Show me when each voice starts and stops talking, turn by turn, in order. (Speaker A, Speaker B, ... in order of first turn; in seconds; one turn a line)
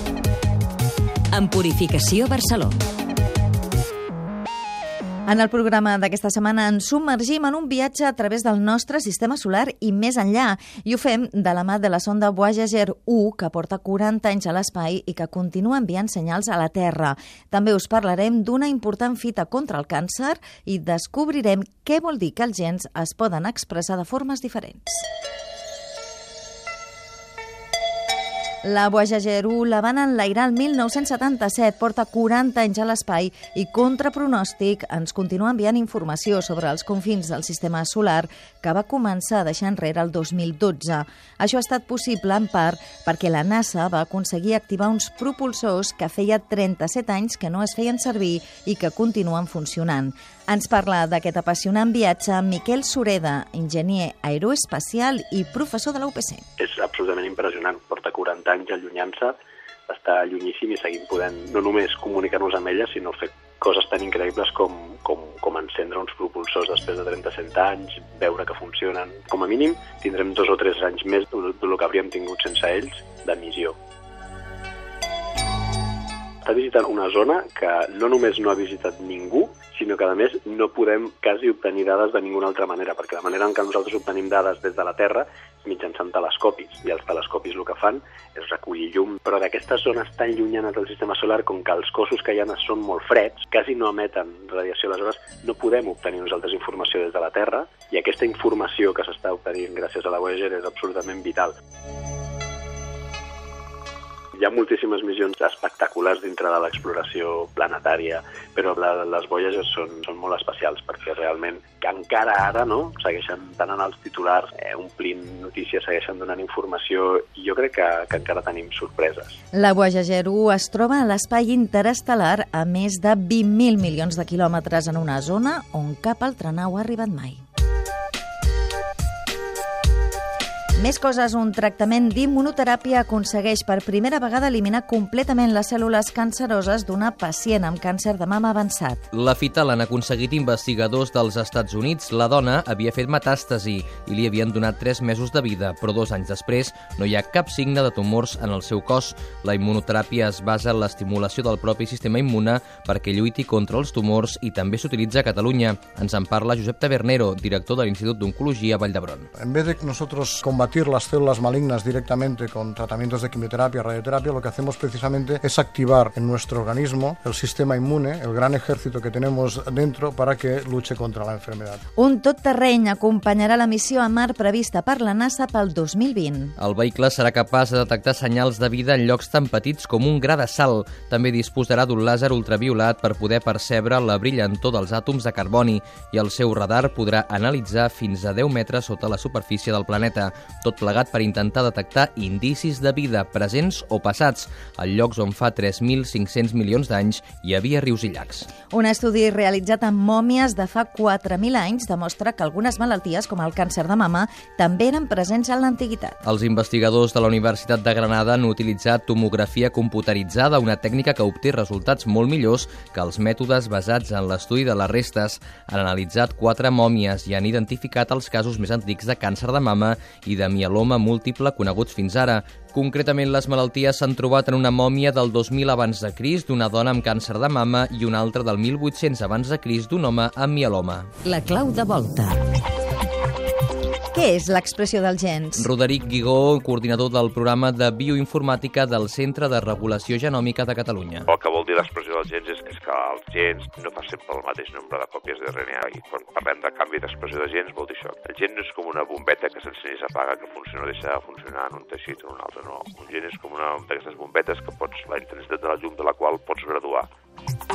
Speaker A: 1.3-2.8
Speaker B: 5.3-25.0
Speaker B: 28.6-56.4
Speaker C: 56.6-59.4
Speaker C: 59.9-73.8
Speaker C: 76.4-101.5
Speaker C: 104.3-119.3
Speaker B: 119.5-127.4
Speaker B: 130.8-139.0
Speaker D: 139.1-159.3
Speaker E: 159.3-171.8
Speaker B: 171.9-176.5
Speaker D: 176.6-198.5
Speaker B: 198.7-206.2
Speaker D: 206.2-231.1
Speaker A: 231.2-232.4
Speaker B: 234.1-235.7
Speaker D: 235.6-241.3
Speaker F: 241.3-257.1